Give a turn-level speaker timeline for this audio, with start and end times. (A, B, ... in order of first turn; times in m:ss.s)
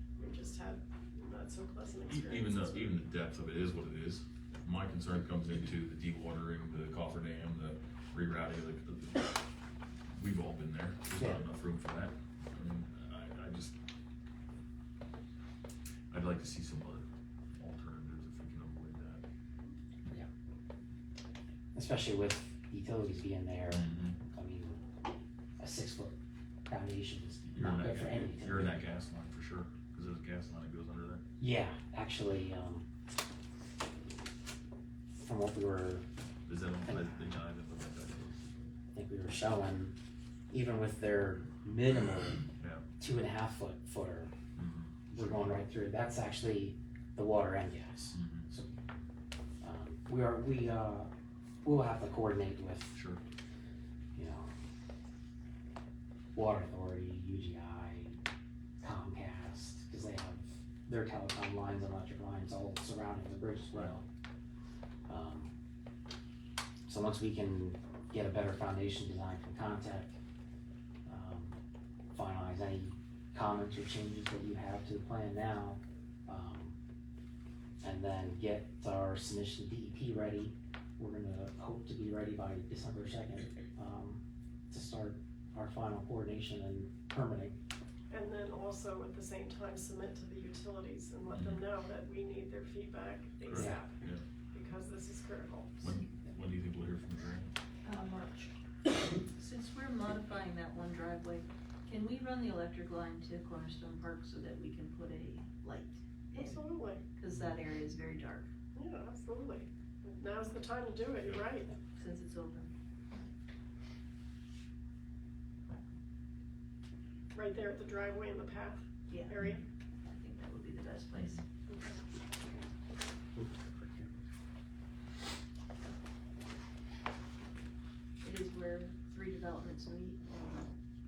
0:00.2-0:03.0 A
0:02.1-0:09.3 B
0:10.1-0:13.8 B
0:11.2-0:11.4 C
0:16.1-0:19.2 B
0:21.7-0:24.8 C
0:23.7-0:24.2 B
0:25.6-0:26.1 C
0:26.7-0:28.8 C
0:27.5-0:31.2 B
0:31.4-0:32.8 C
0:35.1-0:36.0 C
0:36.5-0:38.4 B
0:36.8-0:37.2 C
0:38.9-0:39.9 C
0:40.5-0:42.4 C
0:42.6-0:42.8 B
0:43.0-0:44.3 C
0:44.5-0:45.6 B
0:45.1-0:48.7 C
0:48.1-0:48.5 B
0:49.6-0:51.1 C
0:51.6-0:53.0 C
0:52.9-0:53.2 B
0:54.1-0:54.5 C
0:56.3-0:58.2 C
0:58.8-1:04.0 C
1:05.1-1:05.5 C
1:06.9-1:10.2 C
1:11.0-1:11.6 C
1:12.1-1:16.8 C
1:17.8-1:27.6 C
1:28.1-1:33.9 A
1:31.3-1:31.6 B
1:33.4-1:34.2 B
1:33.5-1:33.8 C
1:34.5-1:35.8 A
1:35.8-1:37.5 B
1:38.0-1:38.3 D
1:39.4-1:45.9 D
1:46.3-1:47.0 A
1:47.2-1:48.5 D
1:48.7-1:51.7 A
1:52.0-1:52.7 D
1:57.3-1:59.6 A
1:59.1-1:59.4 D
2:00.1-2:01.4 D
2:01.7-2:02.0 A
2:03.6-2:04.0 C
2:08.3-2:10.6 D